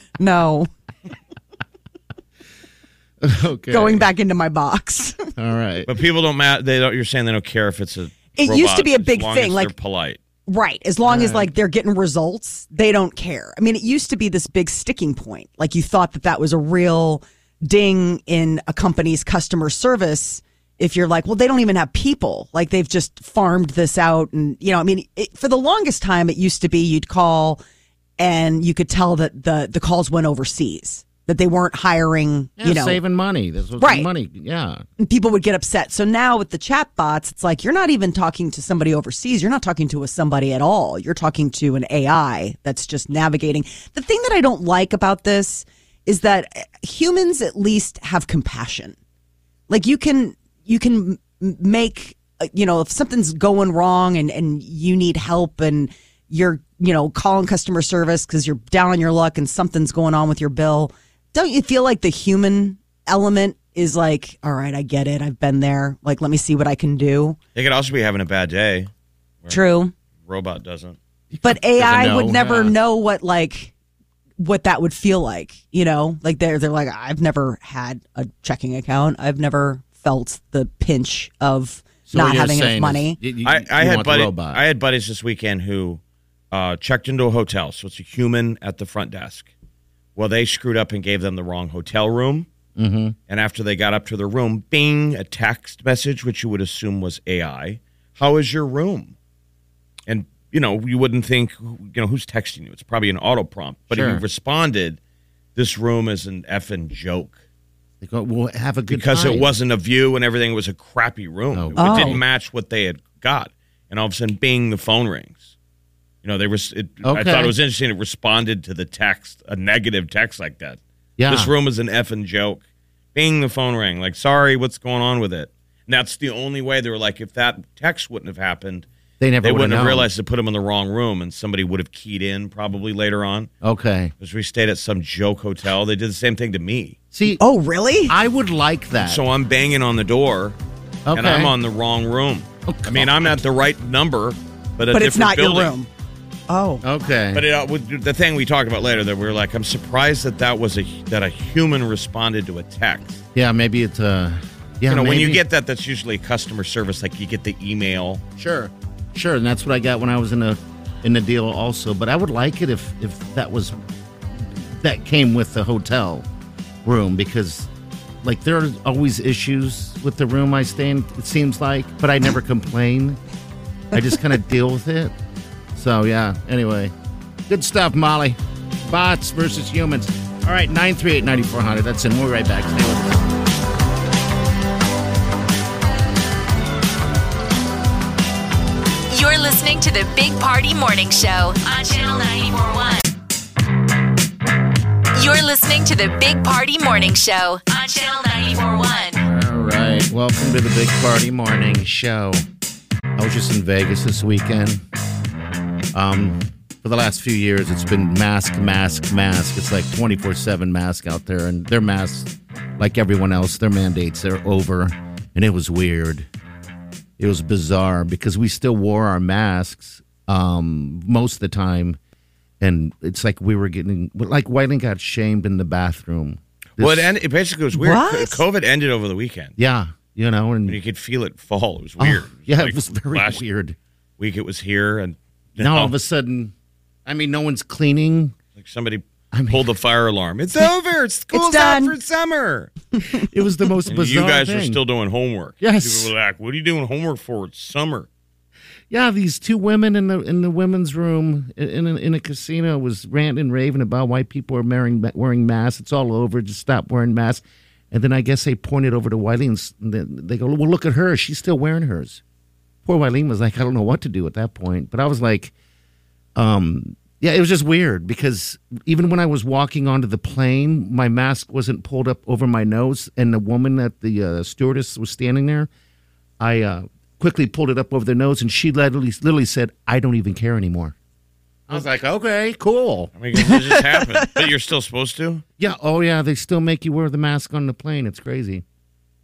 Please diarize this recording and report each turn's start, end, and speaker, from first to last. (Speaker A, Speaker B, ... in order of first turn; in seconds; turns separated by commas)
Speaker A: 0.2-0.7, Speaker B: 3.2-4.0, Speaker A: 3.7-5.2, Speaker B: 5.4-5.9, Speaker C: 5.9-10.2, Speaker A: 8.3-9.7, Speaker A: 10.5-27.6, Speaker B: 11.0-11.5, Speaker A: 28.2-33.0, Speaker B: 32.6-34.8, Speaker A: 33.8-34.1, Speaker A: 35.0-48.9, Speaker A: 49.7-67.4, Speaker C: 67.5-68.9, Speaker A: 69.5-69.9, Speaker C: 70.2-71.0, Speaker B: 71.3-72.7, Speaker A: 71.4-73.7, Speaker A: 74.4-83.2, Speaker B: 82.1-84.6, Speaker C: 83.4-89.5, Speaker C: 90.2-92.5, Speaker B: 92.8-93.2, Speaker C: 93.3-99.1, Speaker C: 100.1-105.0, Speaker B: 103.9-104.2, Speaker C: 105.5-107.4, Speaker B: 108.0-109.5, Speaker C: 108.9-115.4, Speaker B: 111.5-112.2, Speaker A: 111.8-112.2, Speaker C: 116.2-122.6, Speaker B: 117.0-117.5, Speaker B: 121.2-121.5, Speaker C: 123.1-128.9, Speaker B: 129.2-130.1, Speaker C: 129.4-133.5, Speaker B: 133.6-134.1, Speaker C: 134.2-137.0, Speaker B: 137.1-137.4, Speaker A: 137.4-138.2, Speaker B: 138.1-139.2, Speaker C: 139.0-140.6, Speaker B: 141.1-141.5, Speaker C: 141.1-145.7, Speaker B: 142.7-143.3, Speaker A: 144.9-145.9, Speaker A: 146.5-146.8, Speaker B: 146.8-147.4, Speaker C: 147.3-153.2, Speaker B: 153.3-155.4, Speaker C: 154.9-158.2, Speaker B: 158.4-163.8, Speaker B: 164.3-166.3, Speaker B: 166.8-167.7, Speaker B: 168.2-173.2, Speaker B: 173.9-175.1, Speaker B: 175.7-176.9, Speaker B: 177.5-183.3, Speaker D: 189.1-193.0, Speaker D: 195.1-199.2, Speaker B: 199.2-202.4, Speaker B: 203.2-204.8, Speaker B: 205.9-216.3, Speaker B: 217.2-222.0, Speaker B: 222.6-227.1, Speaker C: 226.8-229.5, Speaker A: 227.7-228.4, Speaker B: 229.6-230.8, Speaker C: 230.7-233.4, Speaker B: 232.0-233.8, Speaker C: 234.2-235.9, Speaker B: 235.6-236.5, Speaker B: 237.1-238.3, Speaker C: 238.6-242.7, Speaker B: 239.3-239.7, Speaker A: 241.3-241.9, Speaker B: 243.2-244.8, Speaker C: 243.9-248.1, Speaker B: 245.6-246.1, Speaker B: 248.9-262.2, Speaker B: 262.9-265.5, Speaker B: 266.4-275.7, Speaker B: 276.4-280.9, Speaker B: 281.7-283.1, Speaker C: 283.1-285.4, Speaker A: 283.4-284.4, Speaker B: 285.6-288.6